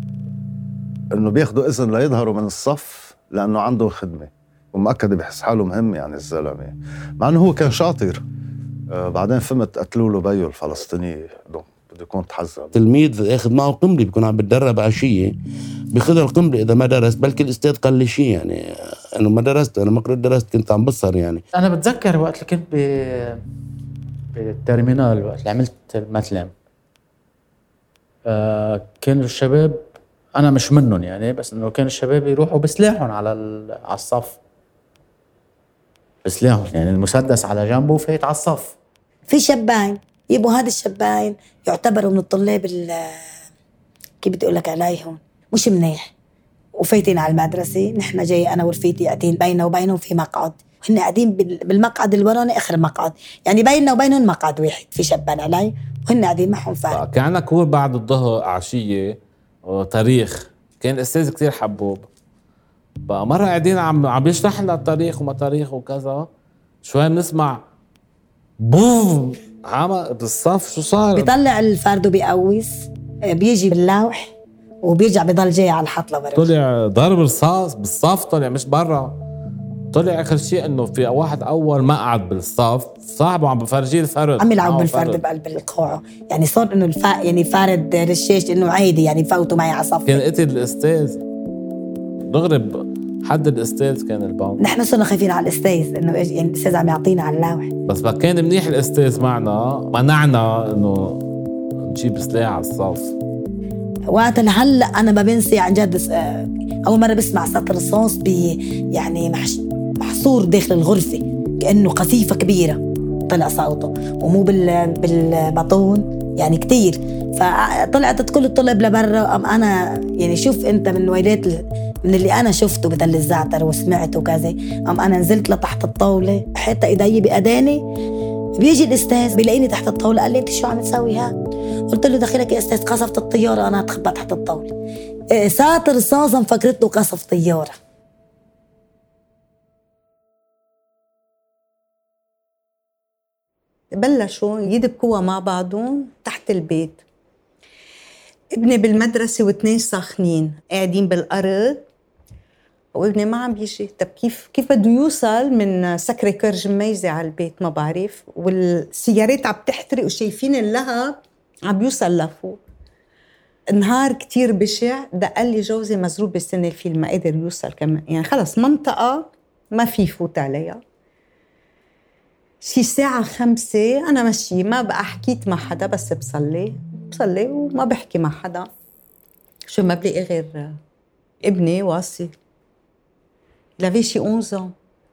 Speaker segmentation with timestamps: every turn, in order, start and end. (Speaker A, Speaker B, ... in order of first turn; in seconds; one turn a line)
Speaker A: 1.1-8.2
Speaker A: 8.9-12.7
Speaker B: 12.7-15.3
Speaker B: 15.9-18.6
Speaker B: 19.2-21.4
Speaker C: 21.6-23.4
Speaker C: 24.4-26.5
Speaker C: 28.3-29.8
Speaker C: 30.4-34.4
Speaker C: 36.2-38.8
Speaker D: 39.3-43.2
Speaker D: 44.2-46.1
Speaker D: 46.8-57.0
Speaker E: 56.9-62.1
Speaker E: 63.1-66.3
Speaker E: 66.8-67.6
Speaker E: 68.6-71.3
Speaker D: 71.2-74.3
Speaker D: 74.8-76.5
Speaker E: 76.4-79.2
Speaker E: 79.9-85.2
Speaker D: 84.4-90.2
Speaker E: 90.1-91.2
Speaker E: 92.3-94.6
Speaker D: 94.6-97.7
Speaker E: 97.9-101.2
Speaker E: 101.8-103.1
Speaker D: 104.1-127.8
Speaker D: 128.6-131.3
Speaker D: 131.9-134.7
Speaker D: 135.3-137.8
Speaker F: 143.9-147.0
Speaker F: 148.5-151.9
Speaker F: 152.9-162.6
Speaker F: 163.7-170.8
Speaker F: 172.6-178.7
Speaker F: 179.7-180.8
Speaker F: 181.4-182.3
Speaker F: 183.8-184.7